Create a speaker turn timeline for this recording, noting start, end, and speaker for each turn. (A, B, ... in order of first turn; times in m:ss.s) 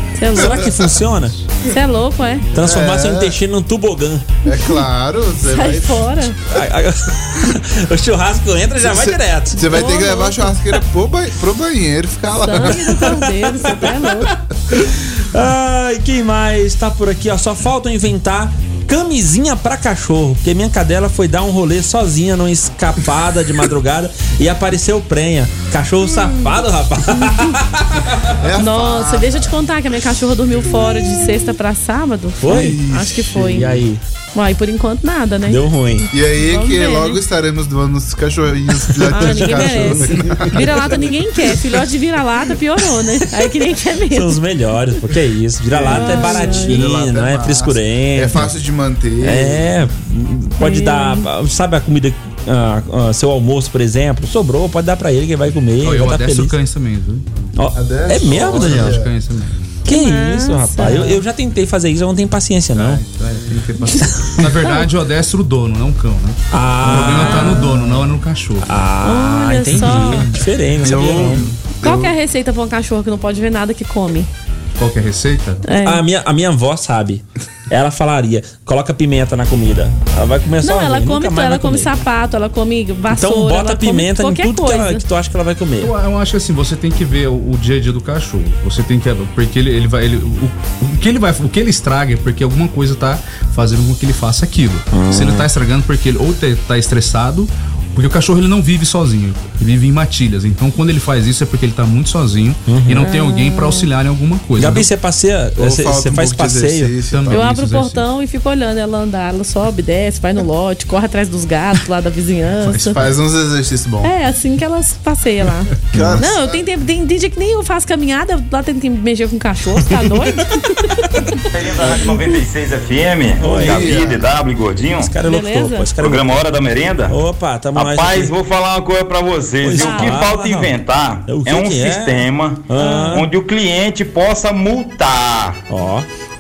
0:00.2-0:00.6 A
0:00.4-0:01.4 B
0:00.4-0:00.8 C
0:01.6-0:02.5 A
0:02.5-0:04.4 B
0:02.6-0:03.4 C
0:04.4-0:06.2 C
0:05.4-0:06.4 A
0:06.5-0:09.8 B
0:08.8-0:13.1 C
0:09.7-0:10.5 A
0:12.4-0:14.3 A
0:12.7-0:13.7 B
0:14.7-0:28.3 B
0:28.3-0:29.6 C
0:28.6-0:33.6 A
0:32.4-0:32.8 B
0:32.5-0:33.8 C
0:33.4-0:34.0 B
0:34.3-0:37.2 A
0:35.5-0:36.1 B
0:36.1-0:40.7 C
0:39.1-0:44.4 A
0:39.2-0:40.7 B
0:44.1-0:48.5 B
0:45.7-0:49.7 C
0:45.9-0:46.8 A
0:49.2-0:56.5 B
0:50.6-0:51.3 A
0:55.8-0:57.2 D
0:57.6-0:59.0 B
0:57.7-0:59.1 C
0:58.4-0:59.6 D
0:59.9-1:03.0 B
0:59.9-1:01.2 A
1:02.8-1:08.7 D
1:06.5-1:07.7 B
1:07.2-1:07.7 A
1:07.6-1:08.0 C
1:08.6-1:11.5 B
1:09.0-1:10.3 A
1:10.8-1:12.1 C
1:11.8-1:14.3 A
1:14.8-1:15.6 D
1:15.6-1:16.0 A
1:15.8-1:21.9 B
1:20.6-1:25.0 A
1:23.1-1:25.9 B
1:25.8-1:44.9 D
1:34.9-1:35.5 B
1:42.7-1:43.1 B
1:43.0-1:43.9 A
1:44.6-1:47.0 B
1:45.6-1:47.4 C
1:47.1-1:48.1 D
1:47.3-1:53.0 A
1:52.7-1:53.1 D
1:52.7-1:54.1 C
1:54.0-2:01.4 A
1:55.9-1:56.6 C
2:01.5-2:05.1 E
2:03.4-2:04.2 B
2:03.5-2:04.2 C
2:04.9-2:06.4 B
2:05.2-2:05.9 A
2:06.0-2:07.2 E
2:07.1-2:08.3 B
2:07.8-2:15.6 E
2:09.6-2:13.3 B
2:09.8-2:10.2 A
2:12.8-2:13.2 A
2:15.7-2:16.1 B